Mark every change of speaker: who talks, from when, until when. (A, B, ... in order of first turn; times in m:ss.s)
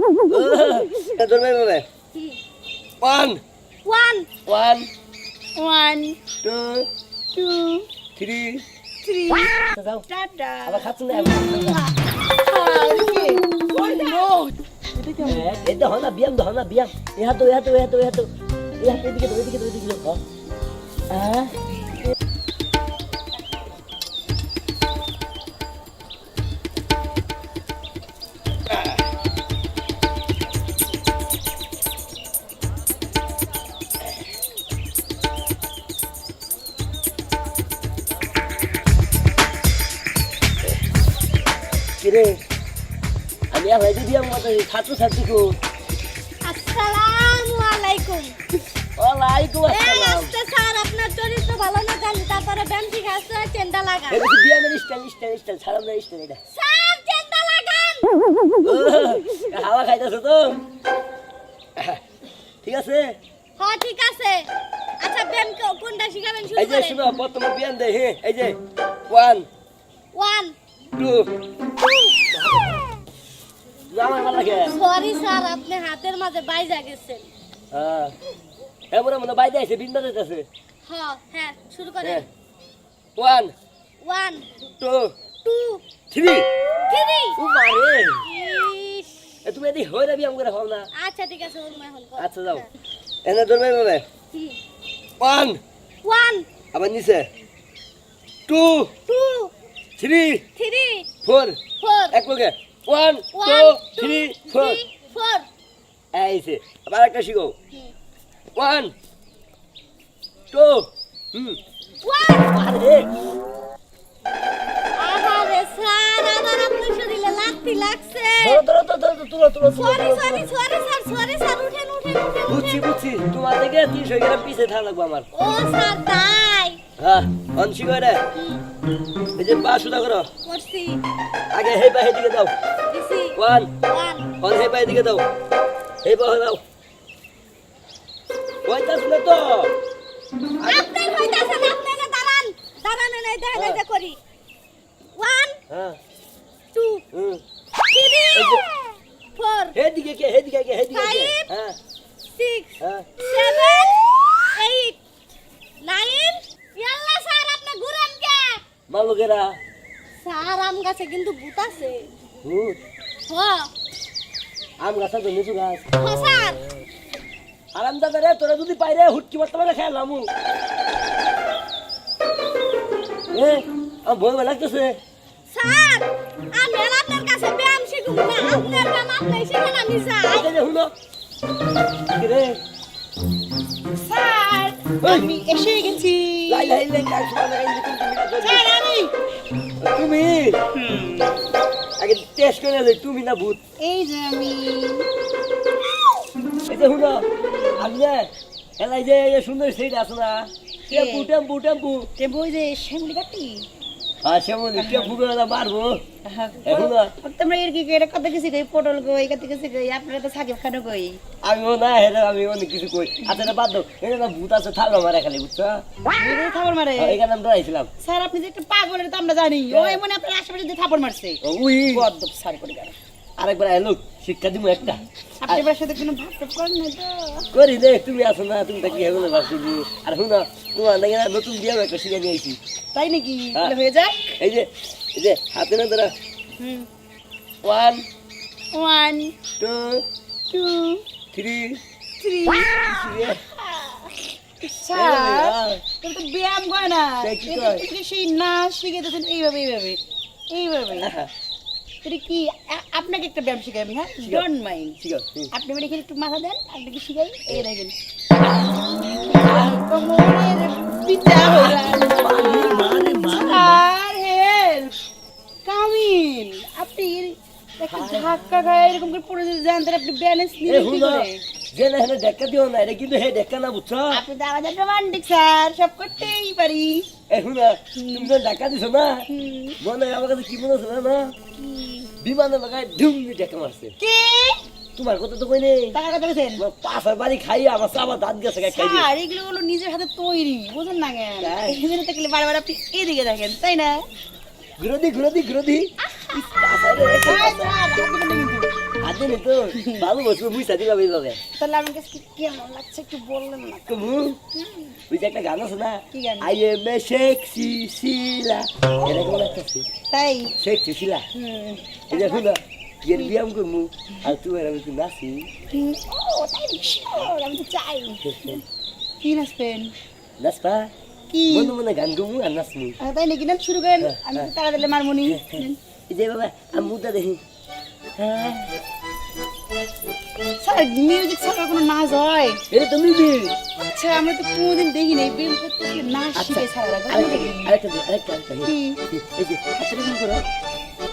0:00.3-0:01.8 A
0:03.0-0:03.4 A
0:03.8-0:04.3 B
0:04.4-0:04.9 A
0:05.6-0:06.2 C
0:06.4-0:06.9 A
0:07.3-0:07.9 C
0:08.2-0:08.6 A
0:09.0-0:11.0 C
0:09.7-0:10.0 A
0:10.6-0:11.8 A
0:11.5-0:15.5 C
0:15.2-0:20.2 A
0:21.1-0:21.5 A
0:42.0-0:42.4 A
0:43.5-0:45.6 A
0:46.4-0:48.4 B
0:49.0-0:50.3 A
0:49.7-0:54.2 B
0:54.1-0:56.4 A
0:56.5-0:58.1 B
0:58.6-1:00.6 A
1:02.6-1:03.2 A
1:03.6-1:04.5 B
1:05.0-1:07.0 B
1:06.6-1:08.6 A
1:09.1-1:09.5 A
1:10.1-1:10.5 B
1:11.0-1:11.3 A
1:12.3-1:12.7 A
1:13.9-1:14.8 A
1:14.7-1:17.3 B
1:17.7-1:18.2 A
1:18.9-1:20.5 A
1:20.8-1:22.3 B
1:23.2-1:23.5 A
1:24.0-1:24.5 B
1:24.8-1:25.1 A
1:25.4-1:25.8 B
1:26.1-1:26.5 A
1:26.9-1:27.4 B
1:27.4-1:28.3 A
1:28.2-1:29.3 B
1:29.4-1:30.9 A
1:30.9-1:32.6 B
1:32.2-1:32.6 A
1:33.2-1:34.0 A
1:35.2-1:35.6 A
1:36.0-1:36.4 B
1:36.7-1:37.3 A
1:38.5-1:38.9 A
1:39.1-1:39.5 B
1:40.0-1:40.4 A
1:40.6-1:41.1 B
1:41.2-1:41.6 A
1:41.8-1:42.1 B
1:42.1-1:44.8 A
1:43.3-1:45.4 B
1:46.1-1:47.5 A
1:48.5-1:48.9 A
1:50.5-1:51.6 A
1:52.0-1:52.6 B
1:52.5-1:53.1 A
1:55.0-1:58.6 B
1:58.4-2:00.5 A
1:59.7-2:02.8 B
2:02.5-2:05.3 A
2:05.3-2:06.8 B
2:07.0-2:08.2 A
2:08.3-2:08.6 B
2:09.4-2:10.3 A
2:10.4-2:11.0 B
2:11.5-2:12.5 A
2:12.9-2:14.3 B
2:13.4-2:13.7 A
2:14.4-2:15.2 A
2:16.0-2:16.6 A
2:18.6-2:19.7 A
2:20.6-2:20.9 A
2:20.6-2:24.2 B
2:23.5-2:23.8 A
2:25.2-2:25.6 B
2:25.7-2:26.0 A
2:26.7-2:27.0 B
2:27.1-2:27.4 A
2:27.9-2:29.8 B
2:28.3-2:28.6 A
2:29.7-2:31.8 A
2:30.9-2:31.5 B
2:32.4-2:35.0 B
2:32.8-2:33.1 A
2:35.8-2:38.6 B
2:38.9-2:39.5 A
2:40.2-2:42.1 B
2:42.4-2:42.8 A
2:43.3-2:43.7 B
2:44.8-2:45.8 A
2:46.0-2:46.6 B
2:47.7-2:50.3 A
2:53.3-2:55.0 A
2:55.5-3:00.5 B
2:58.4-2:58.9 A
3:00.2-3:00.9 A
3:02.2-3:02.6 A
3:03.9-3:06.8 C
3:05.0-3:05.3 A
3:06.5-3:08.7 A
3:08.4-3:09.1 C
3:09.8-3:10.6 A
3:10.7-3:11.5 C
3:12.0-3:13.6 A
3:13.8-3:15.0 C
3:16.7-3:22.1 A
3:17.5-3:17.8 C
3:20.9-3:21.3 C
3:22.2-3:23.7 C
3:24.2-3:26.0 A
3:24.8-3:25.1 C
3:26.2-3:31.2 C
3:26.6-3:27.1 A
3:31.4-3:35.8 A
3:36.1-3:37.2 C
3:37.0-3:37.9 A
3:38.0-3:41.4 C
3:39.7-3:40.0 A
3:41.4-3:42.1 A
3:41.9-3:42.9 C
3:43.4-3:45.6 A
3:45.4-3:47.5 C
3:47.5-3:52.6 A
3:52.9-3:54.4 C
3:54.4-3:56.1 A
3:56.6-3:56.9 C
3:57.6-3:58.0 A
3:58.7-3:59.4 C
3:59.6-4:00.0 A
4:00.5-4:01.0 C
4:01.3-4:01.8 A
4:02.2-4:10.0 C
4:02.8-4:03.4 A
4:04.9-4:05.8 A
4:07.2-4:07.8 A
4:10.5-4:11.1 C
4:11.0-4:11.3 A
4:12.0-4:15.0 C
4:15.0-4:15.5 A
4:15.5-4:18.0 C
4:19.1-4:24.9 C
4:19.2-4:19.8 A
4:21.5-4:23.8 A
4:25.6-4:31.4 C
4:27.9-4:28.3 A
4:30.6-4:34.2 A
4:34.1-4:37.1 C
4:37.3-4:39.3 A
4:38.0-4:38.3 C
4:39.3-4:39.8 C
4:39.8-4:41.3 A
4:41.6-4:42.1 C
4:42.2-4:43.9 A
4:44.0-4:44.6 C
4:45.0-4:46.0 A
4:45.9-4:46.6 C
4:46.6-4:49.1 A
4:48.6-4:54.0 C
4:51.4-4:51.8 A
4:54.8-4:57.8 A
4:57.2-4:58.7 C
4:59.0-5:01.4 A
4:59.8-5:00.1 C
5:01.6-5:04.9 C
5:03.9-5:04.4 A
5:05.1-5:09.9 A
5:06.1-5:06.5 C
5:10.1-5:10.5 C
5:10.6-5:11.3 A
5:11.3-5:12.5 C
5:12.1-5:15.5 A
5:15.7-5:18.6 C
5:18.2-5:18.6 A
5:19.2-5:19.9 C
5:20.4-5:20.9 A
5:21.3-5:21.7 C
5:21.5-5:23.0 A
5:23.0-5:25.8 C
5:24.0-5:24.5 A
5:25.3-5:27.4 A
5:28.2-5:28.7 A
5:30.6-5:32.6 C
5:32.7-5:33.6 A
5:33.9-5:37.7 C
5:36.3-5:40.3 A
5:38.6-5:39.0 C